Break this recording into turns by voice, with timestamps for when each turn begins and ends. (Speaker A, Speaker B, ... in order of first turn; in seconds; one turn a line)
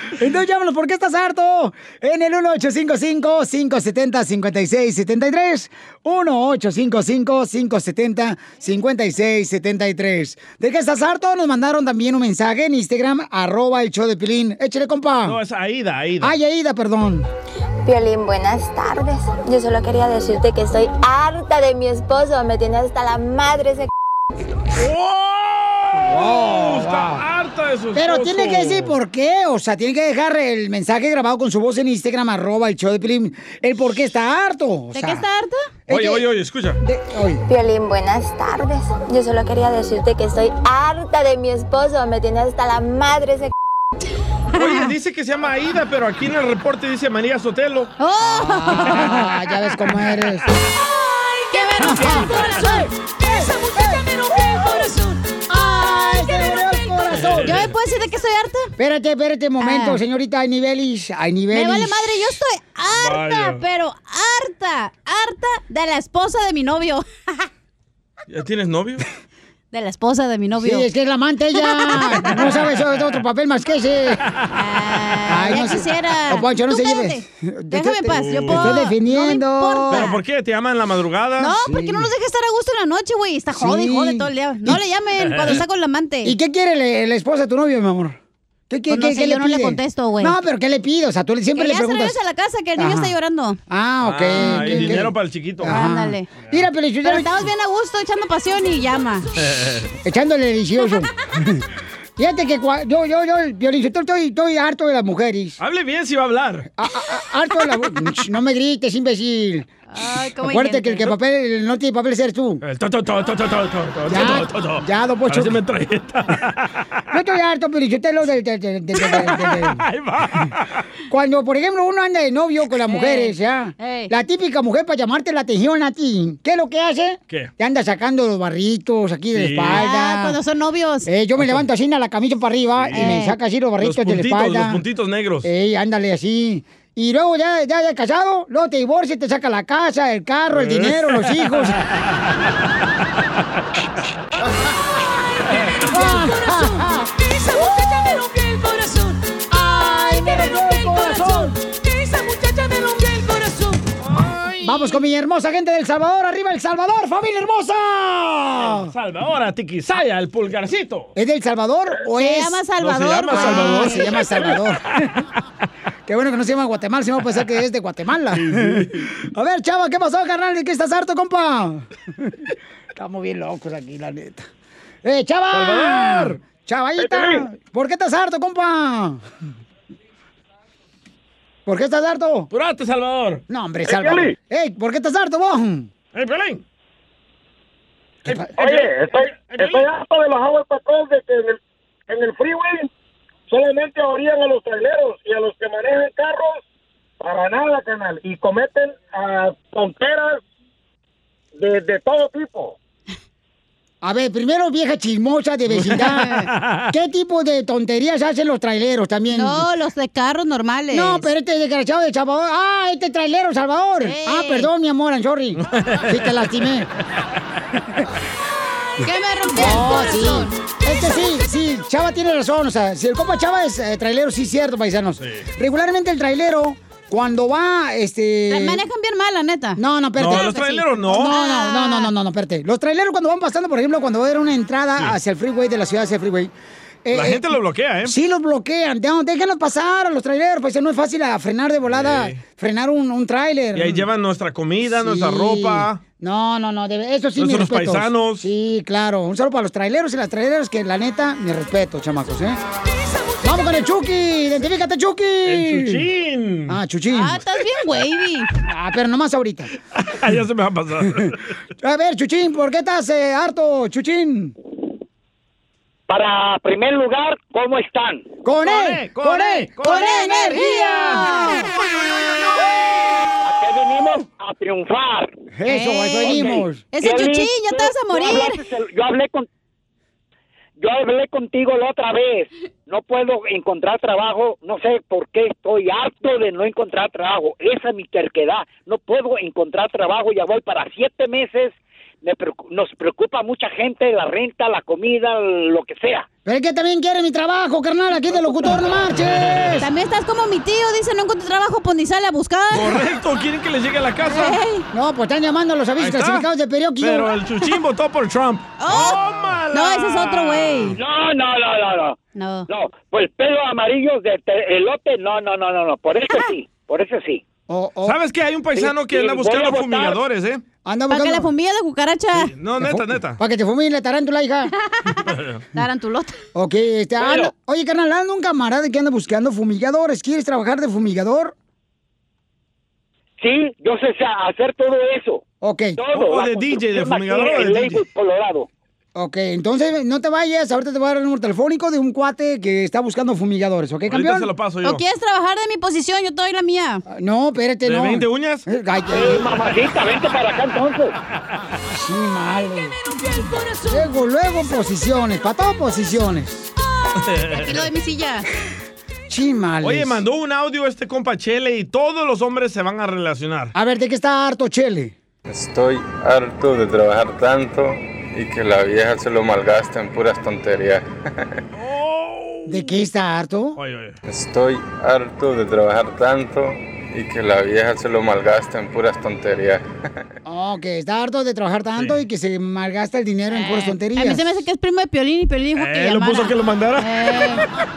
Speaker A: 0.1-15.4
Speaker B: 15.2-16.3
Speaker A: 16.2-17.3
Speaker C: 17.8-23.9
Speaker B: 24.8-28.9
Speaker A: 26.0-27.2
Speaker A: 27.9-35.2
Speaker D: 34.9-35.6
Speaker A: 35.9-36.3
Speaker B: 35.9-36.8
Speaker A: 36.8-37.4
Speaker C: 37.5-43.5
Speaker B: 44.5-47.9
Speaker D: 48.0-49.3
Speaker A: 48.4-50.5
Speaker E: 51.0-55.4
Speaker D: 51.5-52.7
Speaker A: 51.8-54.9
Speaker A: 55.5-57.6
Speaker E: 56.1-57.0
Speaker B: 57.1-57.7
Speaker D: 57.4-58.7
Speaker A: 58.8-62.0
Speaker D: 59.6-60.0
Speaker D: 61.5-67.4
Speaker B: 62.9-63.6
Speaker B: 68.3-69.0
Speaker D: 69.7-70.9
Speaker A: 70.6-74.2
Speaker D: 71.5-72.7
Speaker D: 74.5-80.2
Speaker A: 75.3-80.1
Speaker B: 78.1-78.8
Speaker B: 79.9-81.5
Speaker D: 81.4-86.3
Speaker A: 81.6-82.1
Speaker A: 83.5-84.8
Speaker B: 85.2-85.6
Speaker A: 86.2-88.2
Speaker A: 88.7-92.2
Speaker D: 88.9-90.3
Speaker D: 91.5-93.6
Speaker A: 92.8-93.1
Speaker A: 93.7-97.3
Speaker B: 94.0-95.8
Speaker D: 94.4-95.0
Speaker D: 95.6-96.3
Speaker D: 97.0-99.3
Speaker B: 99.4-99.9
Speaker A: 100.0-101.6
Speaker A: 102.2-105.6
Speaker B: 105.6-106.7
Speaker A: 106.8-109.7
Speaker D: 109.9-111.1
Speaker A: 110.4-112.6
Speaker B: 112.6-116.7
Speaker A: 114.1-115.6
Speaker A: 117.1-119.8
Speaker B: 119.0-120.7
Speaker A: 121.1-130.3
Speaker D: 122.9-124.1
Speaker B: 129.3-129.8
Speaker D: 129.6-131.1
Speaker A: 131.0-134.8
Speaker B: 132.8-133.1
Speaker D: 132.9-133.3
Speaker B: 133.8-135.5
Speaker A: 135.4-141.8
Speaker B: 140.5-142.3
Speaker E: 145.8-153.8
Speaker A: 145.9-147.1
Speaker A: 149.5-151.6
Speaker B: 154.0-154.7
Speaker A: 154.6-158.9
Speaker B: 158.6-161.1
Speaker A: 161.2-162.6
Speaker D: 162.1-164.5
Speaker B: 162.8-164.6
Speaker A: 163.3-165.2
Speaker A: 166.1-172.3
Speaker B: 168.3-169.1
Speaker A: 172.9-174.5
Speaker A: 175.0-179.2
Speaker B: 175.5-176.4
Speaker F: 177.0-177.4
Speaker A: 181.7-182.5
Speaker B: 182.5-183.4
Speaker A: 183.5-185.9
Speaker F: 183.9-184.3
Speaker B: 186.1-186.6
Speaker A: 188.2-188.5
Speaker B: 188.3-189.9
Speaker F: 188.6-192.9
Speaker F: 193.5-196.6
Speaker F: 197.2-200.4
Speaker F: 201.6-202.8
Speaker A: 204.0-209.6
Speaker B: 205.7-206.9
Speaker D: 209.3-211.3
Speaker A: 210.9-216.9
Speaker D: 214.0-214.7
Speaker B: 215.7-216.3
Speaker D: 219.0-220.5
Speaker A: 219.5-228.8
Speaker B: 225.2-225.4
Speaker D: 228.5-232.1
Speaker A: 229.8-230.5
Speaker B: 230.2-231.3
Speaker A: 231.1-236.5
Speaker A: 237.0-244.1
Speaker B: 237.1-238.2
Speaker B: 241.9-242.4
Speaker B: 243.7-246.0
Speaker A: 244.9-252.6
Speaker B: 247.4-248.4
Speaker E: 253.0-253.8
Speaker A: 253.4-256.0
Speaker B: 255.4-256.8
Speaker A: 256.7-257.4
Speaker D: 257.1-258.5
Speaker A: 258.6-259.7
Speaker B: 259.9-261.5
Speaker A: 261.8-264.5
Speaker G: 266.1-268.4
Speaker A: 268.4-271.5
Speaker B: 268.6-271.2
Speaker D: 269.8-271.7
Speaker B: 272.2-272.6
Speaker G: 273.4-275.4
Speaker A: 275.5-276.8
Speaker D: 275.6-278.6
Speaker G: 276.3-279.5
Speaker G: 280.8-296.3
Speaker A: 296.4-299.9
Speaker B: 299.1-299.9
Speaker D: 299.8-303.0
Speaker B: 302.7-304.6
Speaker D: 304.2-304.8
Speaker A: 304.9-307.3
Speaker B: 306.0-306.4
Speaker B: 307.0-311.0
Speaker D: 308.8-311.0
Speaker G: 310.9-312.2
Speaker D: 312.3-312.7
Speaker G: 312.7-317.4
Speaker A: 317.7-318.2
Speaker B: 318.0-320.6
Speaker G: 318.8-320.2
Speaker A: 320.8-321.5
Speaker D: 321.1-322.5
Speaker B: 322.4-323.4
Speaker A: 322.8-324.7
Speaker D: 324.9-326.4
Speaker B: 325.3-325.6
Speaker A: 326.5-331.5
Speaker G: 327.2-327.5
Speaker G: 333.4-335.4
Speaker A: 335.6-336.0
Speaker G: 335.9-338.7
Speaker B: 336.1-338.0
Speaker A: 339.1-344.5
Speaker B: 344.1-345.0
Speaker D: 344.8-347.0
Speaker A: 347.1-349.5
Speaker B: 347.8-348.6
Speaker G: 349.1-351.1
Speaker A: 351.9-353.0
Speaker E: 353.1-354.1
Speaker A: 353.9-356.7
Speaker B: 357.2-357.8
Speaker D: 357.5-358.4
Speaker A: 359.3-360.2
Speaker B: 359.8-363.7
Speaker A: 363.7-365.1
Speaker H: 365.5-371.1
Speaker B: 371.7-372.9
Speaker A: 372.6-373.8
Speaker B: 373.8-374.2
Speaker H: 374.2-380.0
Speaker A: 380.4-384.5
Speaker D: 383.5-387.7
Speaker B: 385.8-387.6